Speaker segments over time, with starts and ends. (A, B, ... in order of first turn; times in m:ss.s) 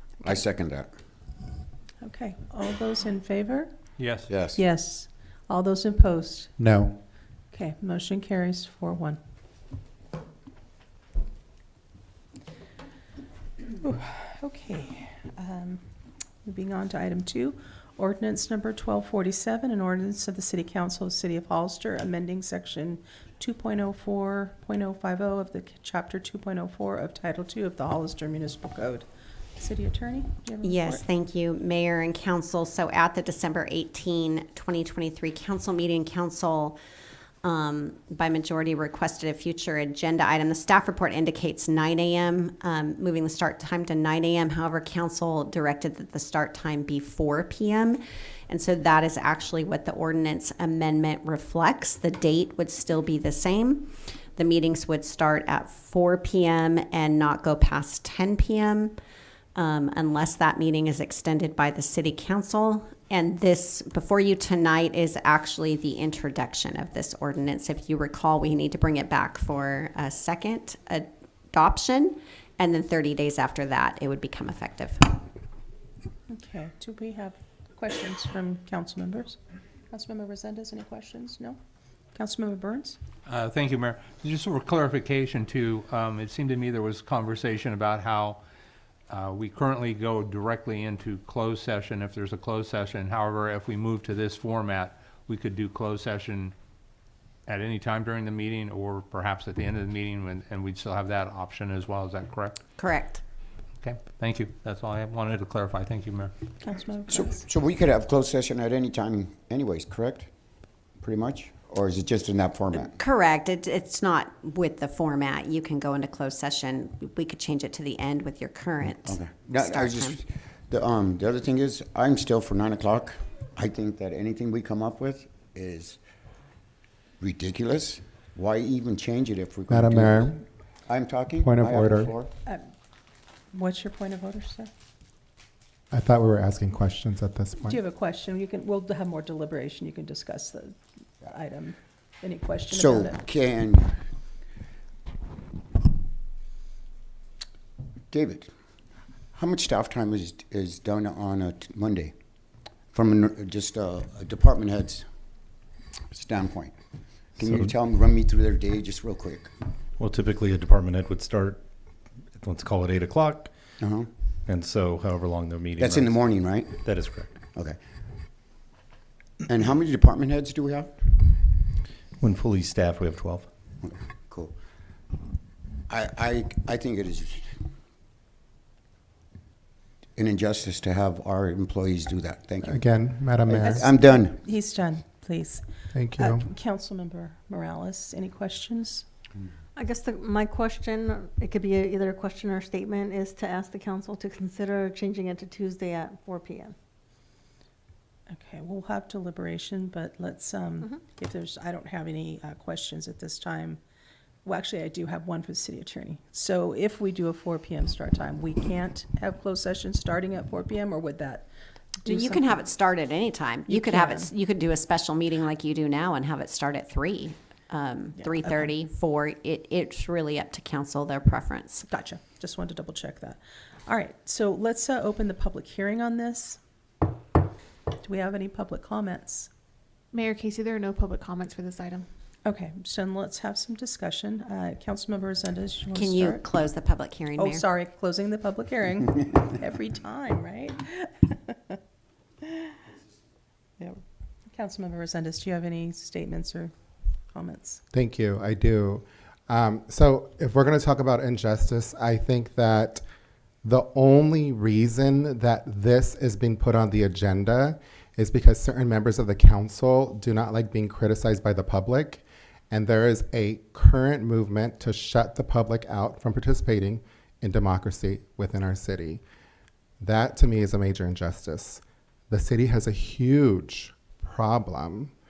0:00.3-0:00.9 A
0:02.0-0:03.7 B
0:04.0-0:04.3 C
0:04.3-0:04.6 A
0:04.6-0:06.5 B
0:06.6-0:06.8 D
0:07.5-0:09.2 B
0:13.7-0:15.9 B
0:16.4-0:29.0 B
0:29.6-0:31.0 B
0:30.6-0:36.8 E
0:37.4-0:59.0 E
0:59.6-1:15.2 E
1:16.3-1:19.4 B
1:19.9-1:21.6 B
1:22.1-1:23.0 B
1:23.3-1:28.4 C
1:29.1-1:36.5 C
1:37.5-1:42.6 C
1:42.8-1:43.2 E
1:43.8-1:46.3 C
1:46.6-1:47.4 B
1:47.1-1:50.3 A
1:51.0-1:52.9 A
1:52.7-2:00.2 E
1:59.1-2:00.2 A
2:00.7-2:06.0 A
2:07.2-2:10.3 A
2:09.7-2:10.4 D
2:10.9-2:12.3 A
2:11.4-2:12.1 D
2:13.5-2:14.7 B
2:15.9-2:17.8 D
2:17.6-2:23.2 B
2:22.7-2:24.0 A
2:28.1-2:28.5 A
2:29.3-2:32.1 A
2:32.9-2:35.1 A
2:36.1-2:36.7 A
2:37.4-2:39.5 A
2:37.4-2:37.8 F
2:40.0-2:41.6 F
2:42.4-2:43.5 F
2:43.8-2:44.1 A
2:44.5-2:47.3 F
2:45.8-2:46.8 A
2:49.5-2:51.0 A
2:52.2-2:53.5 F
2:53.8-2:54.5 A
2:55.9-2:57.6 A
3:00.2-3:02.8 A
3:02.6-3:03.9 D
3:03.5-3:04.4 A
3:03.6-3:05.7 B
3:05.9-3:06.5 D
3:06.2-3:09.0 B
3:09.8-3:16.8 G
3:18.3-3:23.8 B
3:24.4-3:31.5 B
3:32.0-3:32.6 B
3:32.0-3:41.8 E
3:33.7-3:34.3 B
3:38.2-3:38.7 B
3:41.9-3:46.6 B
3:48.0-3:49.5 B
3:50.1-3:52.1 H
3:52.4-3:56.4 B
3:55.9-3:57.7 E
3:57.4-4:01.8 B
4:02.4-4:02.7 B
4:03.8-4:06.7 B
4:07.3-4:07.8 B
4:07.9-4:13.0 D
4:13.6-4:29.2 D
4:30.0-4:35.1 D